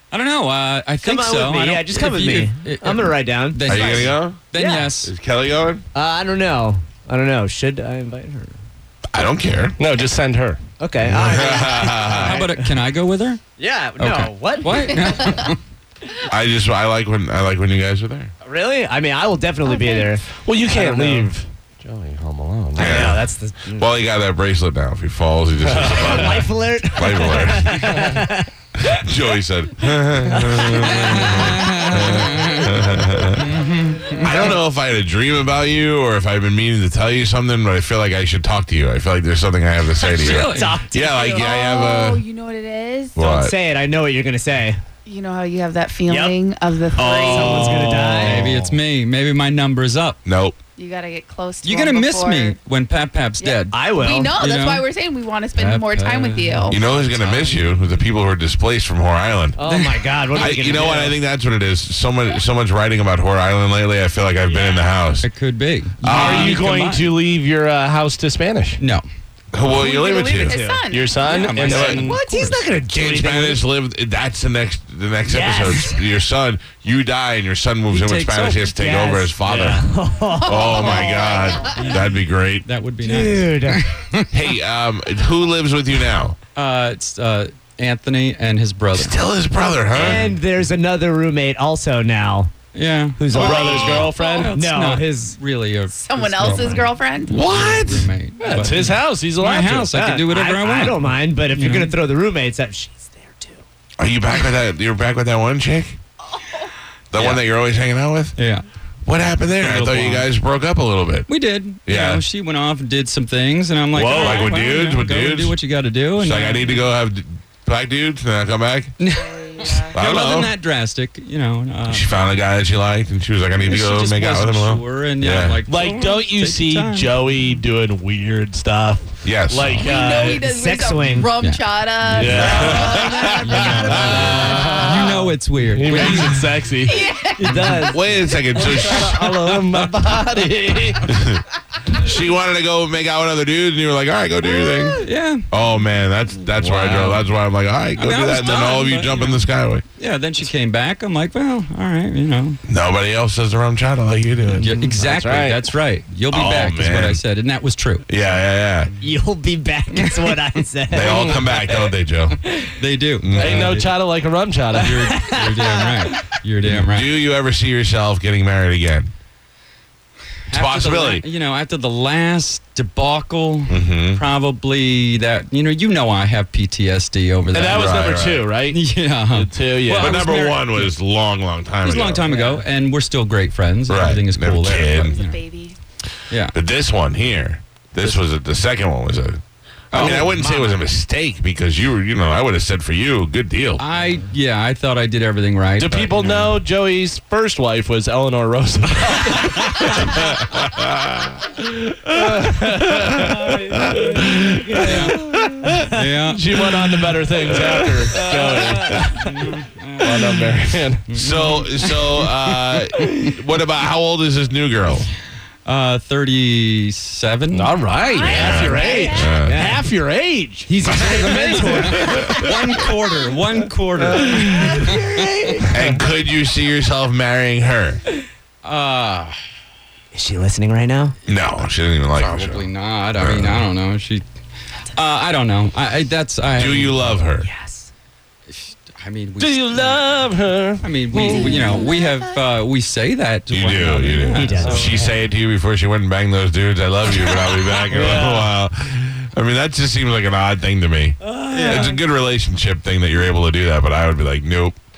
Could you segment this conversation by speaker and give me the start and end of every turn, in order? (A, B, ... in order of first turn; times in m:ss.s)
0:00.1-0:05.1 A
0:01.0-0:04.9 B
0:03.6-0:04.5 C
0:05.0-0:05.8 C
0:05.9-0:08.5 B
0:09.1-0:09.8 C
0:09.8-0:10.6 D
0:10.8-0:12.7 B
0:11.0-0:12.4 C
0:11.8-0:13.4 A
0:13.6-0:15.4 B
0:14.0-0:15.6 A
0:15.2-0:15.5 E
0:16.2-0:18.3 C
0:18.4-0:21.3 B
0:19.6-0:20.1 E
0:20.2-0:23.1 D
0:22.8-0:23.9 B
0:22.8-0:27.9 C
0:25.6-0:26.3 D
0:25.8-0:28.5 B
0:27.8-0:28.2 D
0:28.8-0:33.4 C
0:30.3-0:32.0 B
0:30.6-0:32.7 A
0:33.4-0:34.5 A
0:34.2-0:42.2 C
0:34.2-0:34.5 B
0:40.0-0:40.8 A
0:40.1-0:41.0 B
0:40.9-0:43.3 E
0:43.2-0:43.5 C
0:43.2-0:44.8 B
0:45.0-0:47.9 E
0:46.1-0:46.4 B
0:46.9-0:48.5 B
0:47.2-0:50.2 A
0:48.2-0:48.7 D
0:50.2-0:50.6 C
0:50.8-0:52.6 E
0:51.6-0:54.8 A
0:53.4-0:56.8 E
0:53.7-0:54.4 B
0:55.5-0:57.8 A
0:56.7-0:59.6 C
0:59.6-1:01.2 B
0:59.6-1:00.8 A
1:00.3-1:05.3 C
1:05.2-1:07.1 A
1:06.0-1:06.6 C
1:06.0-1:08.8 D
1:08.8-1:09.0 A
1:09.5-1:10.6 C
1:09.6-1:11.2 E
1:10.4-1:10.8 B
1:10.9-1:12.2 D
1:11.2-1:12.6 A
1:11.6-1:12.0 C
1:11.7-1:13.6 B
1:12.9-1:19.8 C
1:15.3-1:16.0 B
1:17.9-1:19.3 A
1:19.4-1:19.8 D
1:19.5-1:21.6 B
1:20.4-1:21.9 E
1:20.4-1:22.6 C
1:21.7-1:24.3 A
1:23.0-1:23.8 B
1:24.3-1:26.4 C
1:26.5-1:29.1 A
1:28.9-1:30.3 C
1:29.9-1:32.5 B
1:32.7-1:41.9 A
1:33.2-1:35.4 B
1:33.3-1:34.4 E
1:33.3-1:34.5 D
1:36.0-1:37.3 E
1:36.4-1:36.9 B
1:37.3-1:38.1 C
1:38.4-1:39.9 D
1:39.9-1:43.6 B
1:44.0-1:46.0 C
1:46.3-1:46.7 E
1:47.1-1:48.3 C
1:48.4-1:48.6 A
1:49.0-1:51.3 C
1:49.6-1:50.3 D
1:51.3-1:56.8 A
1:51.8-1:52.2 C
1:54.0-1:55.6 C
1:56.2-1:58.9 C
1:59.0-2:02.1 A
1:59.1-1:59.9 E
1:59.9-2:00.5 C
2:01.9-2:05.6 C
2:03.6-2:07.2 A
2:05.7-2:10.4 D
2:09.2-2:09.8 C
2:09.8-2:15.0 E
2:09.8-2:11.3 B
2:12.1-2:12.9 D
2:12.1-2:12.4 A
2:12.2-2:14.9 C
2:12.2-2:15.3 B
2:13.4-2:16.3 A
2:15.7-2:17.0 D
2:16.0-2:16.3 C
2:16.8-2:18.0 E
2:17.4-2:19.0 B
2:17.5-2:19.6 C
2:18.5-2:21.1 D
2:21.0-2:29.8 C
2:24.4-2:24.9 B
2:25.0-2:25.4 A
2:26.6-2:27.2 A
2:26.8-2:27.2 D
2:28.0-2:29.4 A
2:30.0-2:32.6 A
2:32.7-2:34.8 C
2:34.5-2:38.0 A
2:34.8-2:35.6 D
2:36.3-2:37.2 C
2:38.1-2:38.9 C
2:39.0-2:41.4 B
2:40.9-2:42.4 C
2:41.0-2:41.6 D
2:42.5-2:43.9 A
2:43.2-2:43.7 C
2:43.4-2:45.0 D
2:44.7-2:47.1 A
2:44.8-2:46.1 B
2:46.7-2:49.1 C
2:50.5-2:58.0 A
2:50.5-2:51.2 C
2:53.7-2:54.2 C
2:57.5-3:00.2 D
2:57.6-2:58.5 C
2:58.7-3:00.9 A
3:00.0-3:02.2 C
3:01.8-3:05.4 A
3:02.3-3:02.6 B
3:03.9-3:05.2 C
3:04.6-3:05.8 E
3:06.5-3:13.8 C
3:09.9-3:10.4 A
3:10.0-3:10.8 B
3:13.8-3:16.6 A
3:15.8-3:20.3 D
3:19.8-3:25.2 C
3:22.1-3:24.2 D
3:23.3-3:25.9 B
3:24.8-3:25.2 A
3:24.8-3:25.4 D
3:25.8-3:26.5 A
3:26.3-3:29.3 D
3:27.4-3:27.9 C
3:28.1-3:29.1 B
3:28.8-3:30.3 A
3:30.0-3:31.1 D
3:31.1-3:32.3 A
3:31.1-3:35.0 C
3:35.6-3:37.7 A
3:37.5-3:40.8 D
3:38.1-3:39.4 E
3:38.1-3:39.8 B
3:38.3-3:39.7 C
3:40.6-3:42.6 B
3:40.8-3:42.4 C
3:41.2-3:45.4 A
3:44.1-3:44.7 C
3:44.4-3:45.7 B
3:45.7-3:48.0 C
3:48.6-3:49.4 A
3:50.1-3:51.1 B
3:51.3-3:52.6 C
3:52.2-3:54.2 A
3:53.2-3:53.6 C
3:54.9-3:57.2 A
3:56.5-3:57.5 C
3:57.4-3:57.9 B
3:58.5-4:05.0 A
3:59.4-4:01.8 D
4:01.2-4:02.3 B
4:03.5-4:14.8 C
4:04.3-4:05.2 B
4:07.2-4:08.5 B
4:11.2-4:12.0 B
4:11.5-4:12.0 A